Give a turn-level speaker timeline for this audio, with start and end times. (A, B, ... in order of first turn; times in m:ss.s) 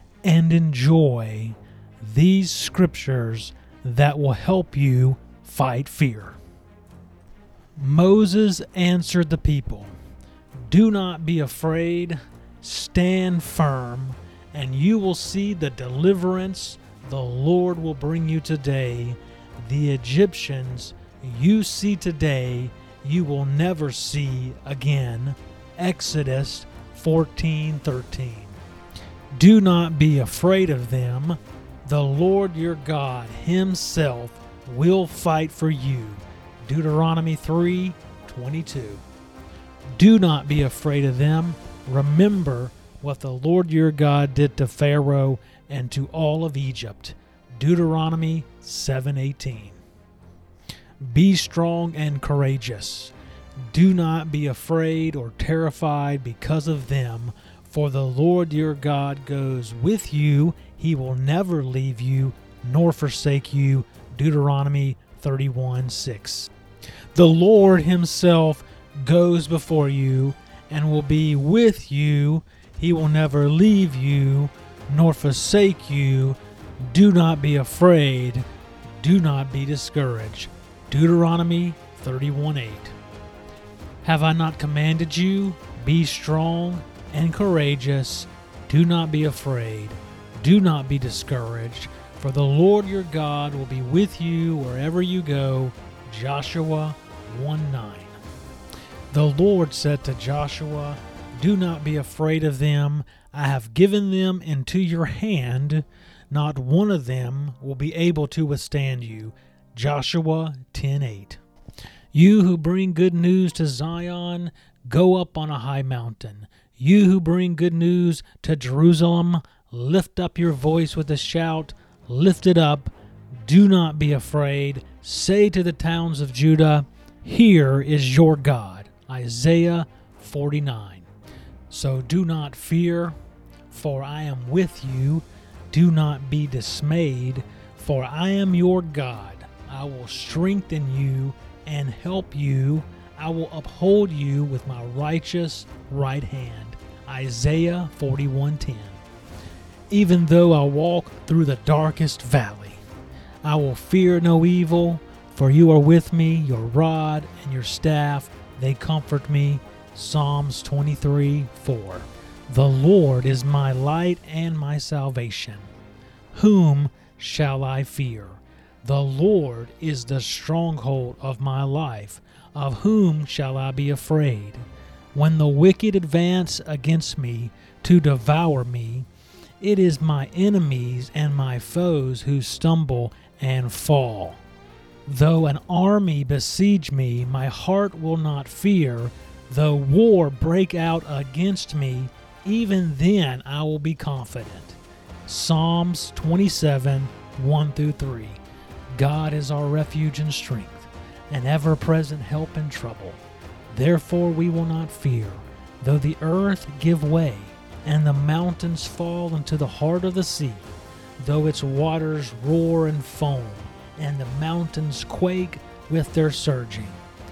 0:00.2-0:06.4 A
0:07.8-0:09.9 A
0:10.7-0:28.6 A
0:29.3-0:39.0 A
0:40.0-0:49.8 A
0:51.0-1:06.5 A
1:07.1-1:22.9 A
1:24.0-1:38.2 A
1:39.1-1:51.4 A
1:52.1-2:11.1 A
2:11.7-2:13.2 A
2:13.7-2:29.0 A
2:29.9-2:32.8 A
2:33.4-2:45.7 A
2:46.3-2:59.1 A
2:59.6-3:04.4 A
3:05.0-3:18.4 A
3:18.9-3:37.0 A